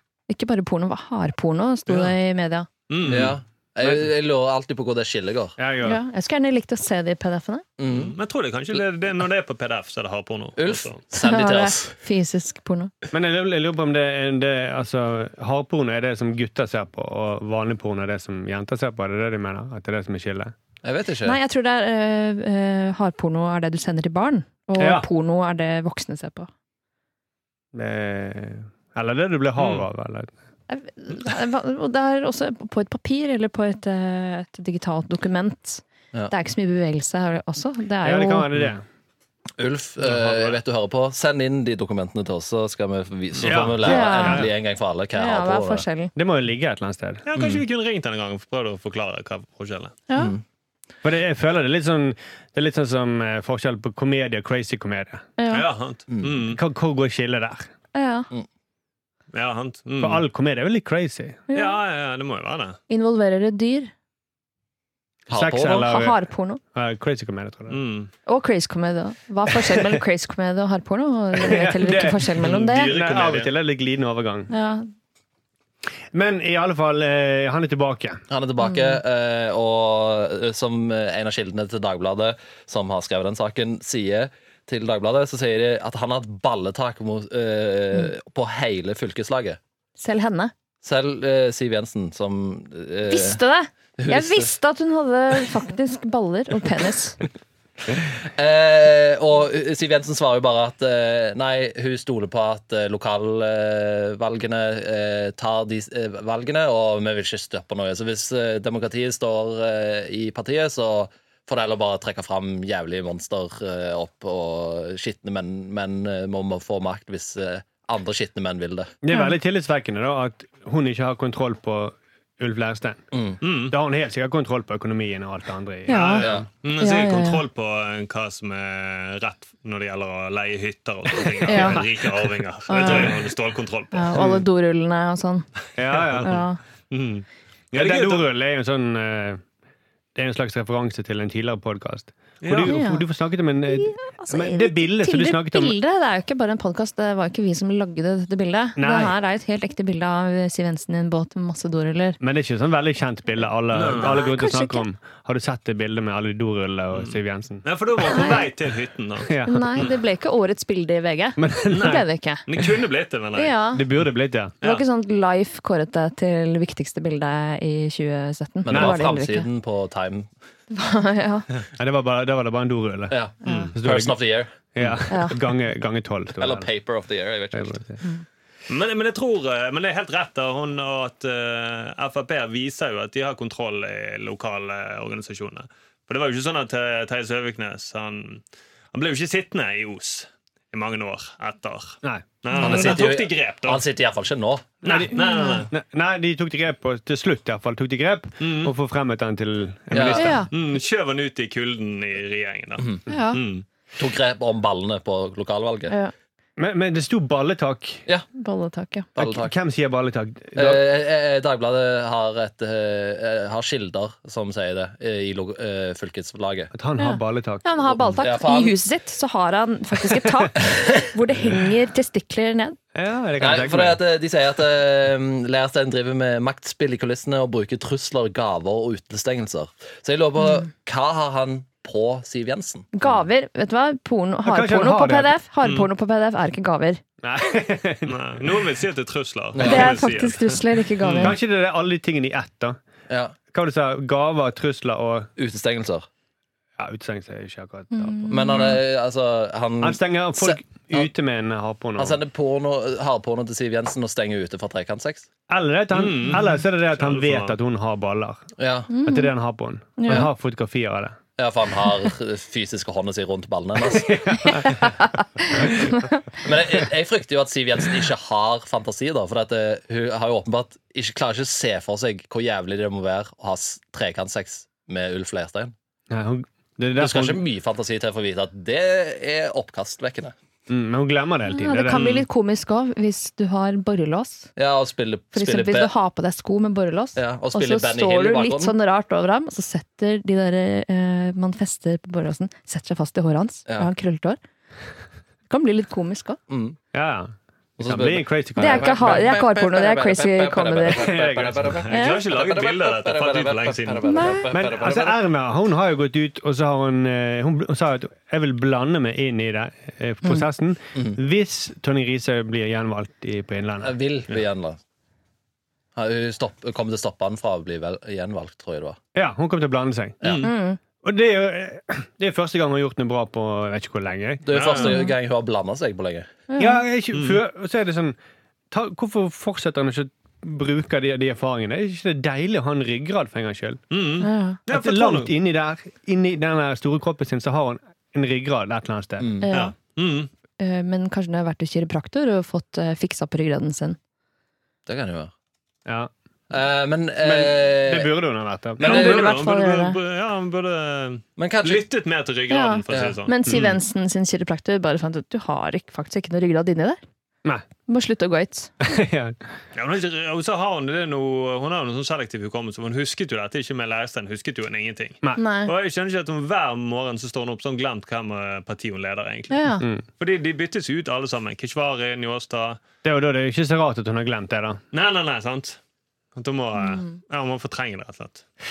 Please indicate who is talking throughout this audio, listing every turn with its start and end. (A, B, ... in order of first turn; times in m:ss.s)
0:00.3-0:02.7 A
0:02.9-0:03.4 B
0:03.0-0:05.6 C
0:05.6-0:06.0 D
0:05.8-0:07.6 A
0:07.8-0:08.1 C
0:07.9-0:11.0 B
0:10.6-0:11.9 C
0:11.1-0:12.9 A
0:13.1-0:20.5 D
0:20.8-0:21.4 C
0:21.2-0:26.5 A
0:24.8-0:25.1 D
0:27.7-0:30.3 D
0:29.6-0:29.8 B
0:30.7-0:38.5 A
0:38.0-0:38.8 D
0:39.6-0:45.8 C
0:43.3-0:43.7 B
0:43.4-0:44.5 D
0:43.8-0:44.5 A
0:45.1-0:46.1 A
0:46.1-0:47.2 D
0:47.2-0:49.9 B
0:50.1-0:50.3 A
0:50.2-0:50.4 C
0:51.0-0:55.3 D
0:55.4-0:55.6 A
0:55.5-0:56.6 B
0:56.1-0:56.4 C
0:56.5-0:57.7 D
0:57.9-0:58.3 A
0:59.3-1:00.2 B
1:00.0-1:01.4 D
1:01.5-1:01.8 A
1:01.5-1:02.8 B
1:02.9-1:03.9 A
1:05.3-1:05.9 C
1:05.3-1:06.2 D
1:05.7-1:06.6 A
1:06.7-1:07.8 D
1:07.7-1:08.1 B
1:08.2-1:12.9 A
1:11.4-1:14.5 D
1:12.4-1:13.5 B
1:14.5-1:14.9 A
1:16.1-1:18.2 D
1:18.3-1:29.6 C
1:18.6-1:19.0 A
1:30.0-1:30.5 A
1:30.8-1:33.4 C
1:33.1-1:37.2 A
1:34.0-1:34.5 C
1:38.4-1:58.9 C
1:59.0-2:03.0 D
1:59.1-1:59.4 A
2:03.1-2:03.4 C
2:03.4-2:03.8 B
2:03.7-2:06.4 D
2:05.9-2:06.2 A
2:05.9-2:14.2 B
2:06.2-2:06.5 C
2:06.8-2:07.4 A
2:11.4-2:11.9 D
2:11.5-2:11.8 A
2:12.7-2:13.2 A
2:13.9-2:15.4 A
2:14.2-2:14.4 D
2:15.8-2:16.4 D
2:15.9-2:16.3 B
2:16.2-2:16.6 A
2:16.9-2:18.3 B
2:17.7-2:19.4 D
2:20.1-2:25.8 D
2:22.4-2:22.7 B
2:22.6-2:23.0 A
2:23.7-2:32.2 A
2:28.8-2:29.1 D
2:32.2-2:37.6 D
2:33.7-2:34.2 B
2:34.0-2:34.8 A
2:36.9-2:39.9 B
2:38.1-2:38.5 A
2:39.3-2:39.7 D
2:39.4-2:42.4 A
2:41.4-2:42.0 D
2:41.7-2:43.6 B
2:43.4-2:43.8 A
2:43.7-2:44.5 D
2:44.6-2:49.5 A
2:48.6-2:50.3 C
2:48.7-2:49.0 D
2:50.7-2:51.4 A
2:51.8-2:53.2 D
2:53.1-2:54.9 C
2:53.4-2:53.7 A
2:53.4-2:53.7 B
2:53.7-2:54.2 D
2:54.7-2:56.7 D
2:55.1-2:55.3 A
2:56.4-2:57.8 C
2:57.5-2:58.0 D
2:58.7-3:13.8 B
3:12.5-3:12.8 A
3:12.6-3:14.7 C
3:14.8-3:15.7 B
3:14.8-3:20.4 D
3:15.1-3:15.6 A
3:18.4-3:18.7 B
3:19.9-3:20.4 C
3:20.2-3:20.5 A
3:20.5-3:23.6 B
3:23.1-3:23.4 A
3:24.0-3:25.9 C
3:26.6-3:28.0 D
3:28.3-3:29.1 A
3:29.2-3:29.5 C
3:29.2-3:30.8 D
3:30.5-3:36.7 C
3:36.7-3:37.6 D
3:37.0-3:42.8 A
3:37.9-3:38.8 C
3:40.6-3:41.0 C
3:42.9-3:44.0 D
3:43.4-3:52.9 C
3:52.9-3:57.0 A
3:54.4-3:55.3 D
3:55.6-3:55.9 B
3:57.2-3:58.2 D
3:58.0-4:01.4 B
3:59.5-3:59.9 C
3:59.6-4:01.4 A
4:01.2-4:02.8 D
4:03.1-4:03.4 C
4:03.5-4:05.3 D
4:05.4-4:06.1 C
4:06.8-4:08.6 D
4:07.9-4:08.8 A
4:08.3-4:11.1 C
4:09.8-4:12.2 D
4:12.0-4:15.3 C
4:15.5-4:18.4 D
4:15.9-4:17.6 B
4:18.6-4:18.9 C
4:18.9-4:19.3 A
4:19.0-4:21.2 D
4:20.0-4:20.2 A
4:21.4-4:24.6 C
4:23.9-4:24.8 D
4:26.4-4:35.7 C
4:36.1-4:37.4 D
4:37.0-4:40.3 C
4:40.7-4:42.0 D
4:41.5-4:44.5 A
4:41.9-4:42.2 B
4:44.6-4:45.9 C
4:45.3-4:54.4 A
4:47.2-4:48.7 C
4:55.5-4:56.4 A
4:56.5-4:56.8 C
4:56.9-4:59.3 D
4:57.8-5:05.2 C
4:58.6-5:01.1 A
5:00.9-5:01.8 D
5:01.8-5:04.0 B
5:01.9-5:02.2 A
5:04.0-5:04.5 A
5:04.5-5:13.9 D
5:13.8-5:14.8 C
5:15.9-5:19.0 C
5:19.1-5:20.2 D
5:20.2-5:20.5 C
5:20.2-5:20.5 B
5:20.4-5:20.8 A
5:21.0-5:24.4 D
5:24.4-5:26.3 C
5:24.5-5:25.0 B
5:24.8-5:25.1 A
5:26.5-5:26.8 A
5:26.6-5:28.2 D
5:27.1-5:27.4 B
5:28.7-5:33.8 D
5:33.9-5:35.3 B
5:34.2-5:34.6 A
5:34.7-5:39.3 D
5:39.2-5:39.5 C
5:39.4-5:39.7 A
5:39.5-5:40.3 B
5:40.6-5:44.0 A
5:44.9-5:45.3 C
5:46.5-5:48.1 C
5:47.2-5:48.8 D
5:48.8-5:49.3 C
5:48.8-5:53.7 B
5:48.8-5:50.0 A
5:51.4-5:51.8 C
5:52.5-5:57.0 A
5:52.9-5:53.2 C
5:57.9-5:58.7 A
5:58.8-5:59.4 D
5:59.7-6:09.6 B
6:05.4-6:05.7 A
6:09.5-6:09.8 A
6:10.2-6:12.8 B
6:13.0-6:14.8 D
6:14.9-6:15.8 B
6:16.4-6:18.4 B
6:16.8-6:17.1 A